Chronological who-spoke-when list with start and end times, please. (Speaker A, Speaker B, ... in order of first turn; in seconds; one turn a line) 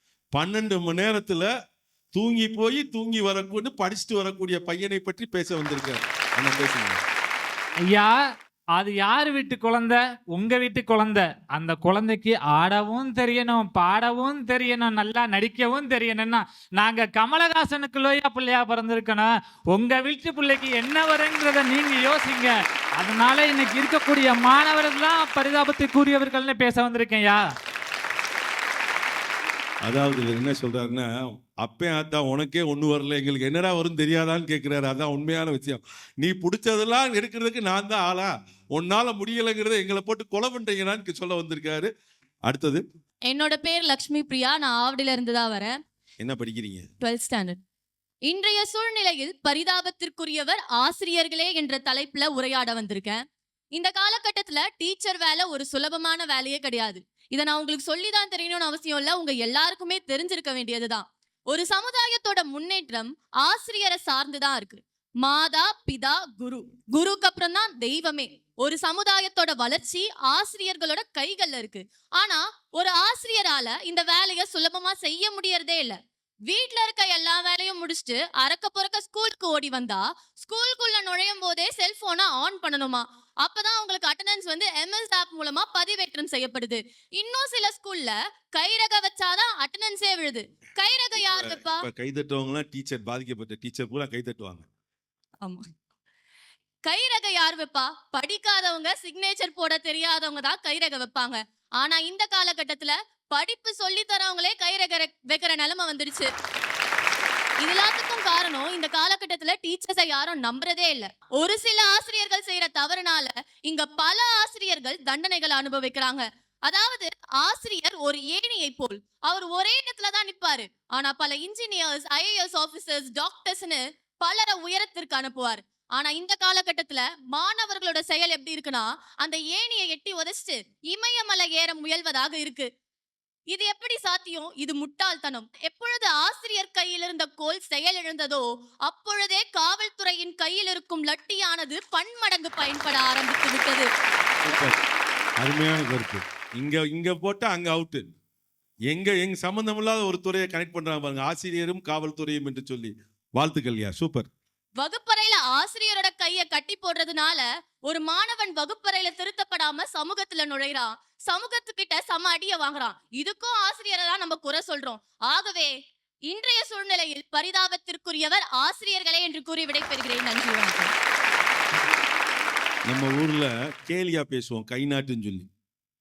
Speaker A: 0.3-1.5
Speaker A: 2.1-7.0
Speaker B: 7.9-8.2
Speaker B: 8.8-27.4
Speaker A: 29.9-41.9
Speaker A: 42.5-42.8
Speaker C: 43.3-45.7
Speaker A: 46.2-46.9
Speaker C: 47.0-47.6
Speaker C: 48.3-53.2
Speaker C: 53.8-76.0
Speaker C: 76.5-91.8
Speaker A: 91.3-94.7
Speaker C: 95.4-95.7
Speaker C: 96.9-106.3
Speaker C: 107.6-132.7
Speaker C: 133.5-143.9
Speaker A: 144.4-144.8
Speaker A: 145.4-148.1
Speaker A: 148.9-154.3
Speaker C: 154.8-165.7
Speaker C: 166.3-170.9
Speaker A: 172.9-175.5